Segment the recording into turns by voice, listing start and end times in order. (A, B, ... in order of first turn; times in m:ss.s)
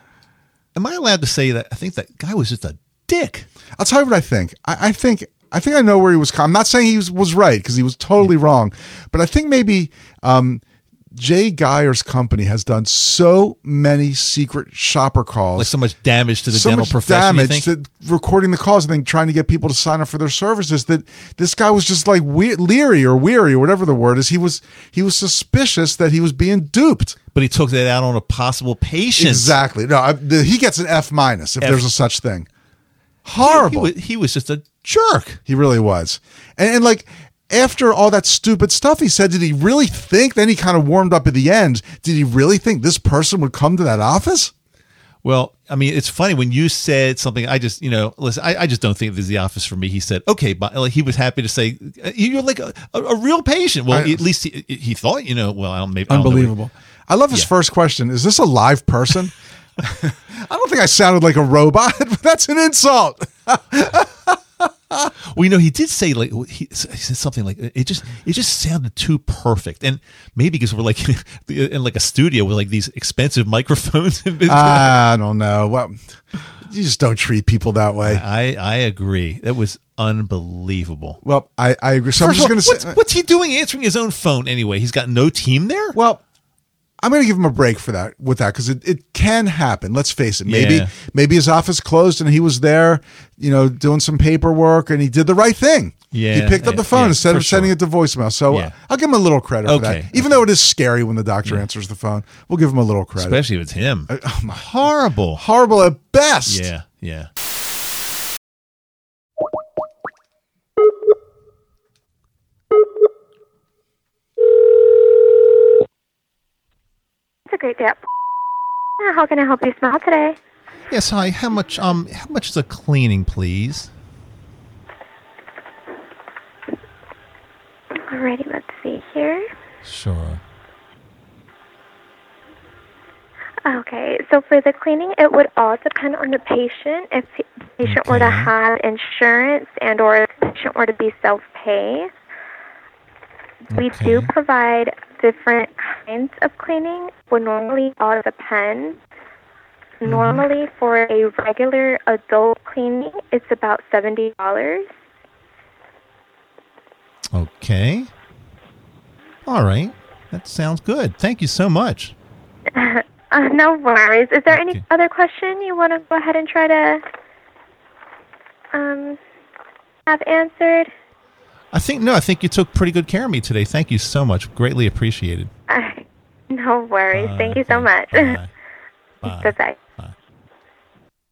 0:00.7-0:03.5 A
0:03.8-0:10.6 B
0:11.1-0:15.7 B
0:15.6-0:17.7 A
0:16.5-0:27.2 B
0:27.3-0:29.6 A
0:29.2-0:32.5 B
0:31.6-0:31.9 A
0:33.2-0:33.9 B
0:33.4-0:35.4 A
0:35.5-0:44.5 B
0:45.2-0:56.5 A
0:53.9-0:54.2 B
0:56.1-1:05.1 B
1:05.3-1:15.0 A
1:14.5-1:16.0 B
1:16.6-1:18.2 B
1:18.0-1:21.2 A
1:21.2-1:22.9 B
1:22.2-1:26.0 A
1:25.9-1:26.2 B
1:27.0-1:43.4 B
1:30.4-1:30.9 A
1:36.1-1:37.7 A
1:39.6-1:40.4 A
1:43.2-1:45.4 A
1:44.1-1:44.6 B
1:45.4-1:46.7 B
1:46.5-1:47.3 A
1:57.5-1:58.0 C
1:59.0-2:00.4 C
2:00.9-2:03.9 A
2:08.0-2:09.5 C
2:09.8-2:10.4 A
2:13.6-2:22.1 C
2:17.8-2:18.5 A
2:23.7-2:24.3 A
2:23.7-2:29.0 C
2:30.0-2:34.9 C
2:30.0-2:30.4 A
2:37.3-2:38.1 A
2:39.4-2:42.1 A
2:42.7-2:47.0 C
2:44.5-2:44.8 A
2:48.7-2:49.2 C
2:50.1-2:50.9 C
2:51.7-2:55.5 A
2:55.7-2:58.4 C
2:57.1-2:58.5 A
2:59.2-3:00.1 A
2:59.2-2:59.8 C